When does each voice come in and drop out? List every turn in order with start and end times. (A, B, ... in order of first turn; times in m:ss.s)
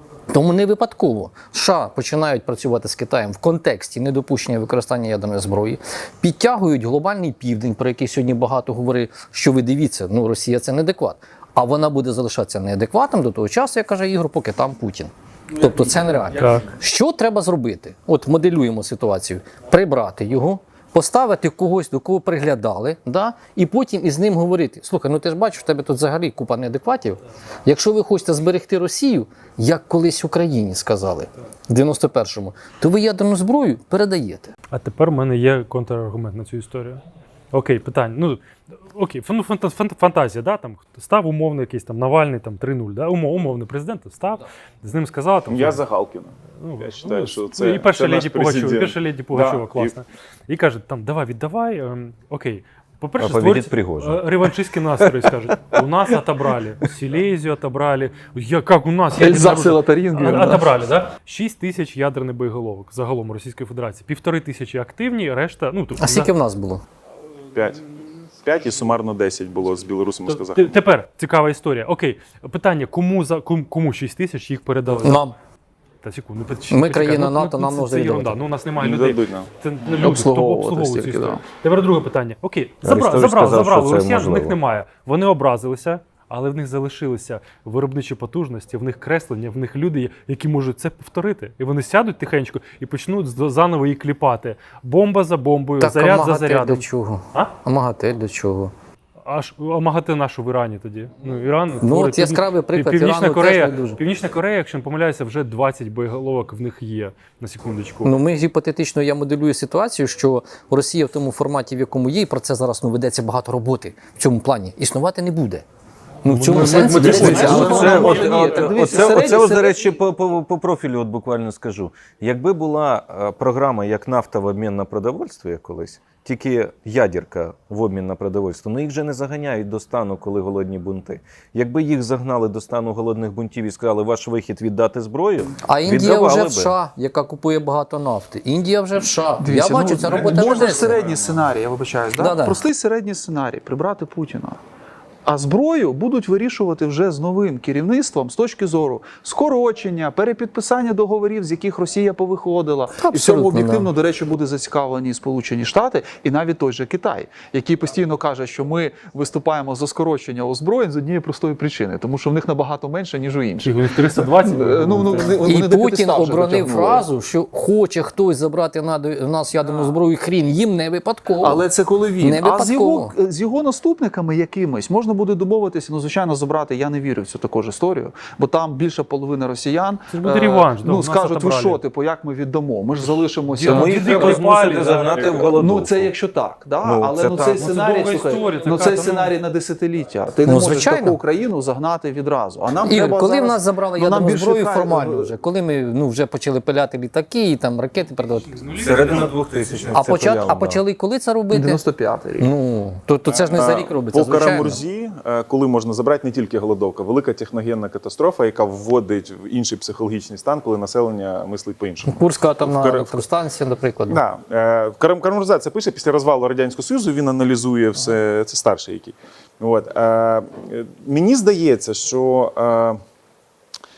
0:00.3-0:34.5 A
0:16.4-0:16.6 B
0:34.7-0:37.0 B
0:37.5-0:45.8 B
0:45.5-0:49.9 C
0:46.6-1:06.3 B
0:53.2-0:54.3 D
0:55.0-0:55.3 D
0:59.2-1:00.7 E
1:06.0-1:06.8 A
1:07.5-1:07.8 C
1:08.4-1:10.7 C
1:10.3-1:15.3 B
1:15.0-1:15.3 A
1:16.0-1:37.5 B
1:16.7-1:18.4 A
1:18.8-1:19.5 C
1:20.0-1:21.4 E
1:22.8-1:24.6 D
1:35.8-1:38.7 A
1:39.3-1:48.1 B
1:41.8-1:44.0 A
1:48.0-1:55.6 A
1:56.2-1:58.1 A
1:56.2-1:58.4 B
1:56.5-2:16.8 D
1:57.0-1:59.8 E
2:15.6-2:21.0 A
2:19.4-2:24.6 E
2:20.0-2:21.4 C
2:22.2-2:22.6 A
2:25.2-2:47.1 E
2:33.0-2:33.9 A
2:43.6-2:45.4 B
2:45.4-2:51.6 A
2:51.4-3:04.4 E
2:52.2-2:53.1 A
3:00.1-3:01.8 B
3:03.5-3:05.4 B
3:03.7-3:06.1 D
3:05.3-3:15.3 E
3:06.8-3:07.7 D
3:07.6-3:09.3 B
3:10.4-3:11.2 A
3:12.8-3:18.7 A
3:18.8-3:20.8 D
3:19.9-3:21.8 A
3:21.5-3:22.5 E
3:22.4-3:24.8 A
3:23.3-3:33.2 C
3:32.0-3:34.2 A
3:34.1-3:43.0 C